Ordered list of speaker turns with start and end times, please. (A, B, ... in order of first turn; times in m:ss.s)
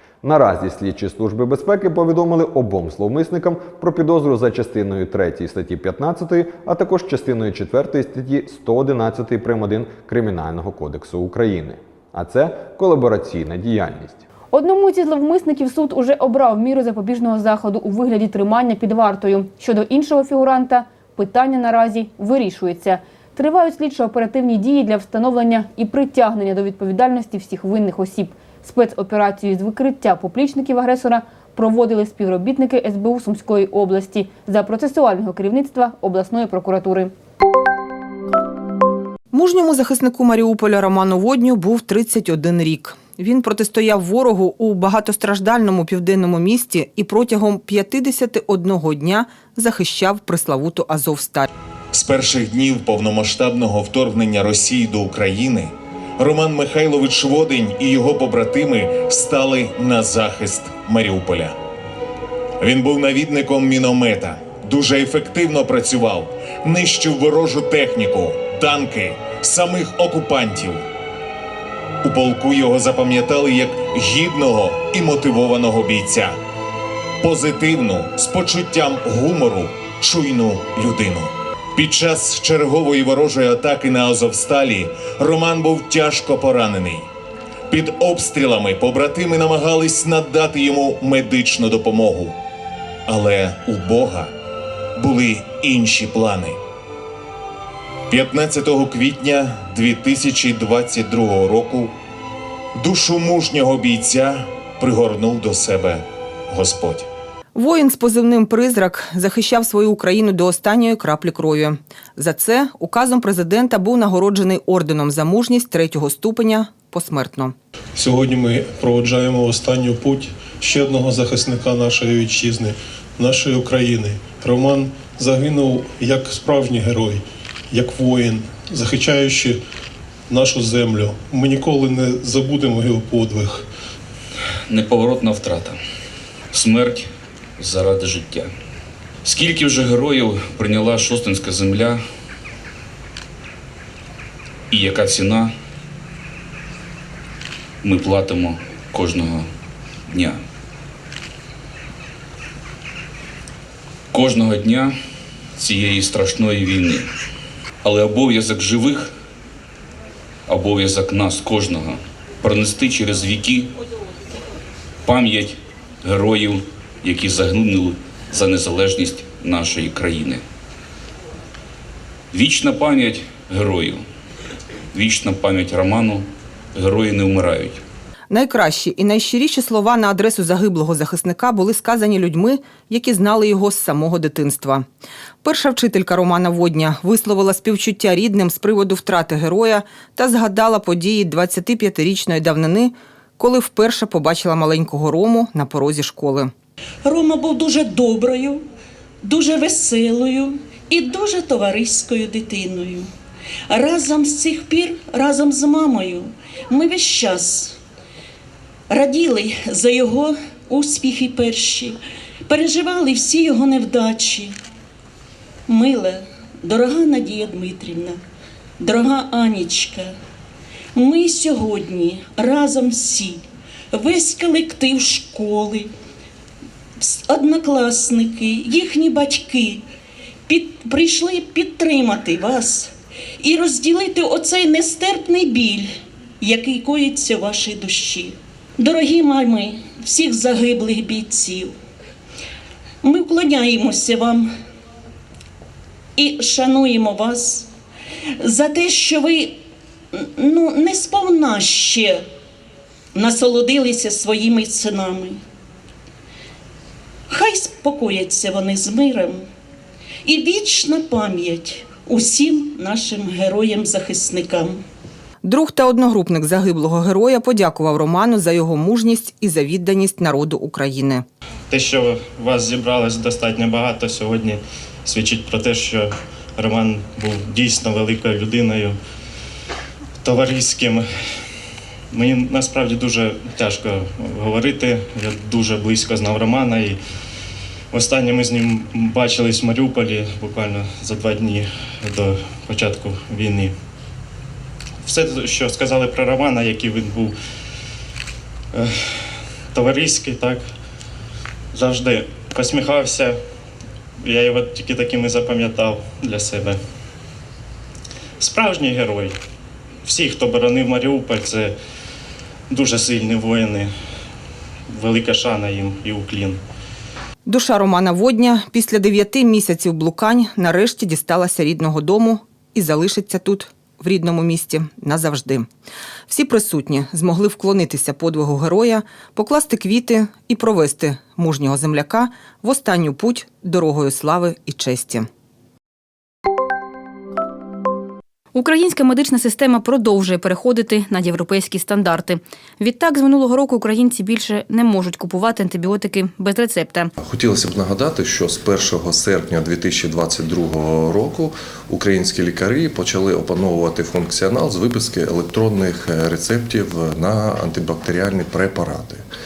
0:00.2-0:14.2 A
0:14.5-0:37.1 B
0:39.3-0:51.4 C
0:51.9-1:01.5 D
1:02.6-1:10.8 D
1:12.0-1:16.3 D
1:17.2-1:27.1 D
1:27.7-1:32.4 D
1:33.1-1:34.3 D
1:35.0-1:36.6 D
1:38.1-1:41.9 D
1:42.8-1:47.1 D
1:47.6-1:57.5 C
1:57.9-2:09.6 E
2:10.3-2:13.6 E
2:14.7-2:15.8 F
2:16.5-2:17.1 F
2:17.6-2:18.5 F
2:19.2-2:22.0 F
2:24.7-2:25.5 F
2:27.8-2:29.5 F
2:30.1-2:30.4 F
2:34.1-2:34.9 F
2:35.6-2:37.1 F
2:37.8-2:39.1 F
2:40.5-2:43.7 F
2:45.0-2:50.4 F
2:52.3-2:54.0 F
2:54.9-2:57.8 F
2:58.3-3:04.8 C
3:05.4-3:16.5 C
3:17.0-3:18.6 G
3:19.2-3:23.1 G
3:23.7-3:27.8 G
3:28.9-3:34.6 G
3:35.7-3:38.2 G
3:38.8-3:40.1 G
3:40.9-3:45.9 G
3:47.0-3:49.8 G
3:50.5-4:01.7 G
4:03.0-4:04.5 G
4:06.2-4:07.7 G
4:08.4-4:09.6 G
4:10.1-4:12.2 G
4:13.1-4:15.4 G
4:17.3-4:19.4 G
4:20.2-4:24.8 G
4:25.4-4:31.2 C
4:31.7-4:39.0 H
4:40.2-4:41.0 H
4:42.1-4:47.0 H
4:47.9-4:53.7 H
4:55.0-4:57.3 H
4:58.7-4:59.1 H
4:59.7-5:00.6 H
5:01.7-5:03.4 H
5:04.2-5:06.8 H
5:08.4-5:09.3 H
5:10.0-5:11.7 H
5:12.7-5:13.9 H
5:14.9-5:16.6 H
5:17.5-5:25.7 C
5:26.3-5:35.3 C
5:38.5-5:47.1 B
5:47.2-5:59.2 I